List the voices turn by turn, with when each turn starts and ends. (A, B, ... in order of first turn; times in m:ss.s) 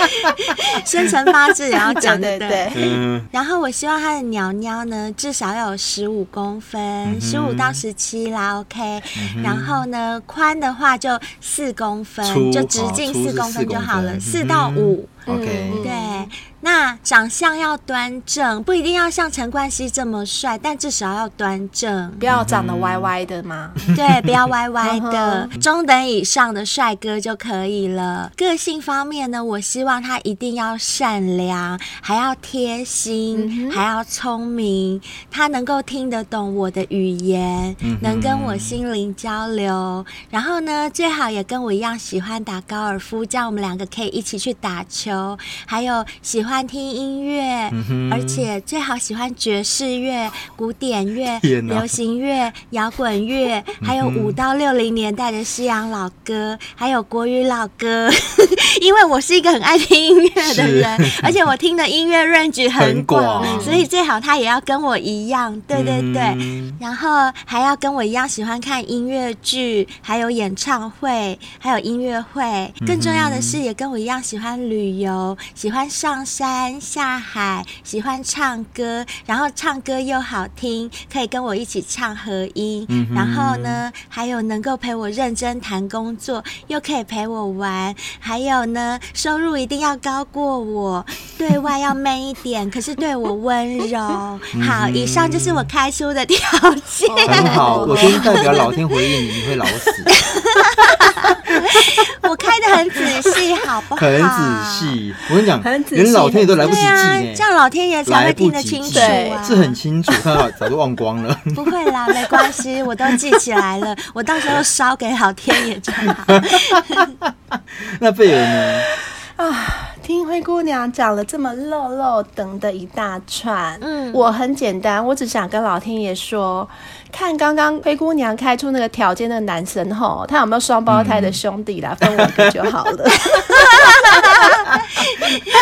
0:00.7-0:02.8 A
0:01.9-0:03.0 B
0:02.8-0:03.3 C
0:03.3-0:15.2 A
0:07.0-0:07.8 C
0:09.2-0:09.8 C
0:12.2-0:15.9 C
0:15.3-0:16.3 B
0:15.8-0:22.3 A
0:22.2-0:24.0 B
0:22.3-0:23.1 C
0:23.9-1:38.8 A
0:24.8-0:25.5 B
0:33.3-0:33.8 B
0:37.8-0:38.8 C
0:47.7-0:48.5 C
0:51.4-0:52.0 C
0:53.8-0:54.4 C
1:00.4-1:01.4 C
1:02.8-1:03.9 C
1:03.4-1:03.8 B
1:05.7-1:06.8 C
1:12.8-1:13.6 C
1:22.9-1:23.8 C
1:34.6-1:35.7 C
1:37.1-1:38.8 B
1:37.3-1:40.1 C
1:40.6-1:45.0 A
1:44.0-1:47.5 C
1:45.6-1:46.9 B
1:46.6-1:49.8 A
1:48.1-1:52.0 C
1:48.9-1:49.4 B
1:51.6-1:57.1 A
1:56.3-1:58.9 C
1:58.5-1:58.8 B
1:59.4-2:14.6 B
2:03.8-2:04.3 A
2:10.9-2:11.4 C
2:13.8-2:15.5 A